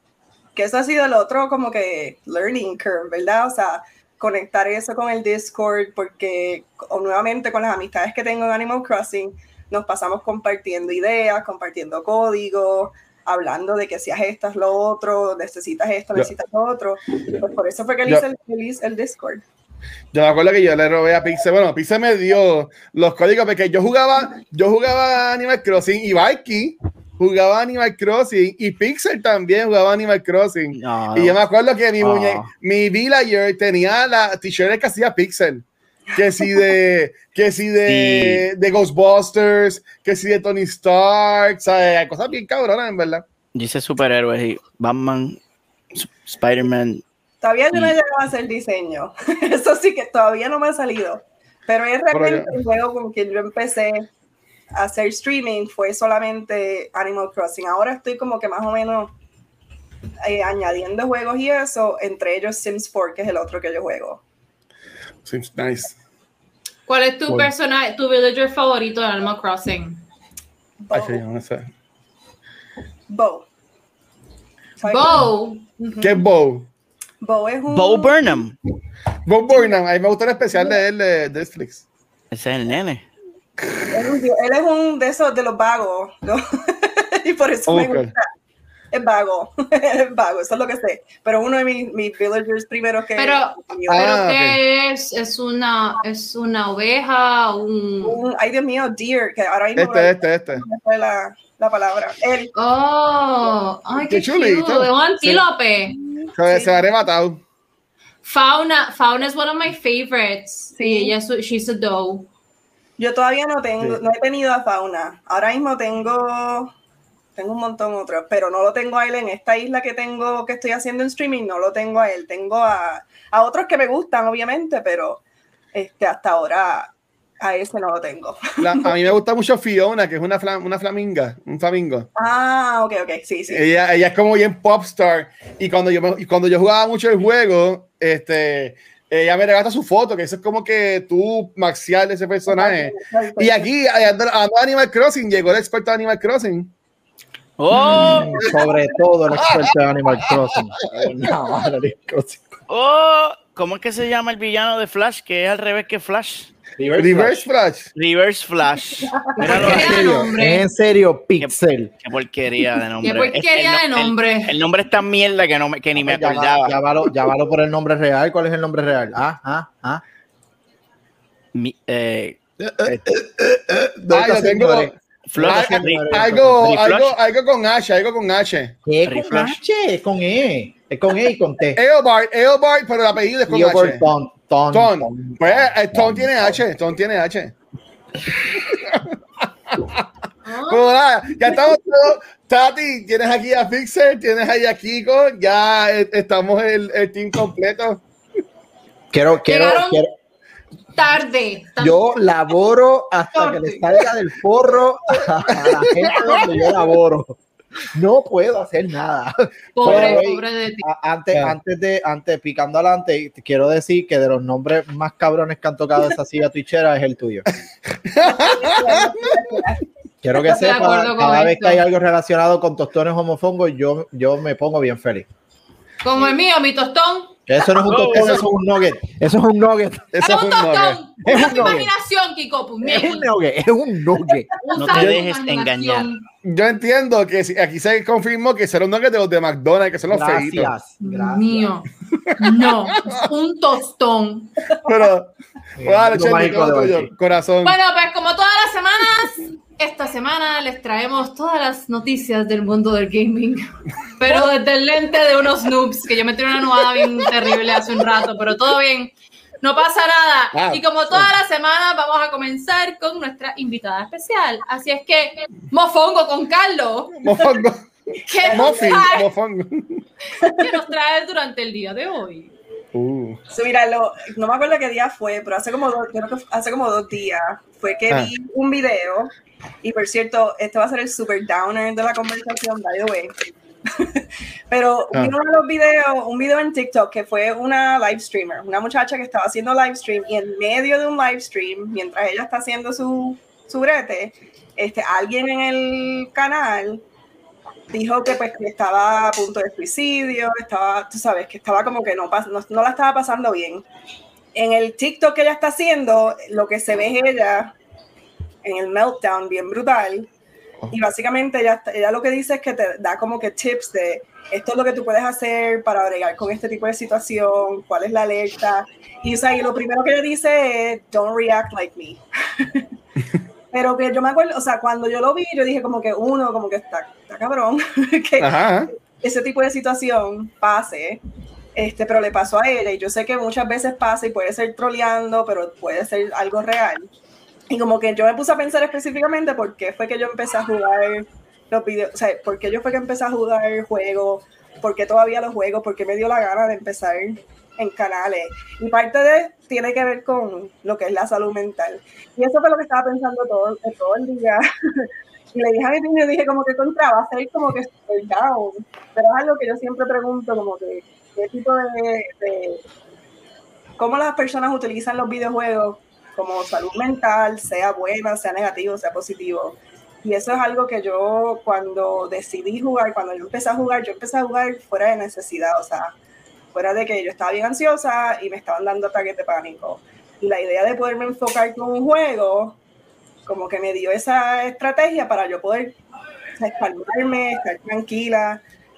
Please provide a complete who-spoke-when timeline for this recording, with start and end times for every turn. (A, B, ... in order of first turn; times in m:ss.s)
0:00.5-0:19.4 A
0:20.1-0:43.2 B
0:30.7-0:31.4 C
0:32.0-0:32.5 C
0:37.9-0:38.4 C
0:43.5-0:45.4 C
0:45.9-0:47.0 C
0:47.4-0:54.1 A
0:52.1-0:52.5 B
0:54.7-0:59.1 A
1:00.2-1:04.2 A
1:05.2-1:06.0 B
1:06.9-1:10.0 D
1:10.8-1:11.2 A
1:10.9-1:11.7 B
1:13.1-1:13.5 A
1:14.8-1:15.3 A
1:14.8-1:16.0 D
1:16.0-1:16.7 B
1:17.2-1:18.3 A
1:17.7-1:18.6 C
1:19.2-1:21.8 B
1:22.3-1:23.0 C
1:23.6-1:24.1 B
1:23.9-1:28.3 A
1:27.7-1:28.1 B
1:28.9-1:34.0 A
1:33.2-1:38.2 D
1:33.9-1:34.6 B
1:38.0-1:42.5 A
1:39.8-1:40.6 B
1:42.5-1:46.0 D
1:44.0-1:45.5 B
1:45.9-1:46.7 A
1:46.4-1:47.4 B
1:48.2-1:52.3 D
1:50.8-1:51.1 A
1:53.0-1:56.7 A
1:57.4-2:05.2 A
2:05.7-2:08.9 A
2:08.6-2:12.1 B
2:12.2-2:13.6 A
2:13.5-2:26.7 B
2:22.5-2:23.7 A
2:27.6-2:28.6 C
2:27.9-2:32.6 E
2:28.0-2:28.5 B
2:30.8-2:31.1 B
2:32.7-2:36.5 C
2:36.8-2:37.4 E
2:37.0-2:37.9 B
2:37.9-2:40.1 C
2:39.4-2:40.6 D
2:39.4-2:41.9 E
2:41.4-2:46.7 C
2:43.0-2:44.6 D
2:46.0-2:50.0 E
2:51.5-2:53.0 C
2:53.4-2:56.7 E
2:54.1-2:58.7 B
2:55.3-2:57.2 C
2:58.8-3:01.8 E
2:59.0-2:59.6 C
3:01.8-3:04.0 B
3:03.5-3:06.6 E
3:04.7-3:07.5 B
3:08.5-3:09.1 B
3:09.7-3:10.0 B
3:10.4-3:10.9 D
3:10.7-3:18.0 B
3:19.1-3:20.1 E
3:19.5-3:20.0 D
3:20.9-3:22.0 D
3:21.8-3:27.4 E
3:23.4-3:23.9 D
3:25.5-3:26.5 B
3:27.9-3:37.4 E
3:29.7-3:30.8 D
3:29.8-3:30.2 B
3:38.0-3:39.3 B
3:38.2-3:39.8 A
3:40.2-3:45.3 E
3:40.4-3:41.8 D
3:46.0-3:47.3 D
3:47.5-3:50.1 E
3:47.9-3:48.4 C
3:48.0-3:48.4 B
3:50.1-3:51.8 B
3:50.2-3:53.3 D
3:51.2-3:51.9 E
3:52.8-3:54.5 E
3:54.6-3:56.2 D
3:54.8-3:56.1 C
3:54.9-3:55.2 B
3:56.4-4:00.7 B
4:00.1-4:01.7 E
4:01.0-4:01.9 D
4:02.2-4:03.2 B
4:02.4-4:04.5 D
4:04.8-4:05.3 B
4:05.8-4:07.1 E
4:05.8-4:07.8 B
4:07.6-4:27.3 D
4:20.5-4:21.3 B
4:27.2-4:27.8 B
4:28.2-4:29.3 D
4:28.4-4:29.1 A
4:28.5-4:30.0 B
4:30.4-4:30.8 A
4:30.6-4:32.5 D
4:32.9-4:33.4 B
4:33.5-4:39.3 A
4:39.8-4:57.0 A
4:57.9-5:03.8 A
5:04.5-5:07.7 A
5:08.6-5:10.3 A
5:10.9-5:22.8 A
5:23.7-5:28.6 A
5:28.4-5:28.9 B
5:29.1-5:31.2 A
5:31.8-5:37.1 A
5:37.7-6:02.8 A
6:04.0-6:16.1 A
6:16.7-6:22.8 A
6:23.4-6:26.0 A
6:26.6-6:28.6 A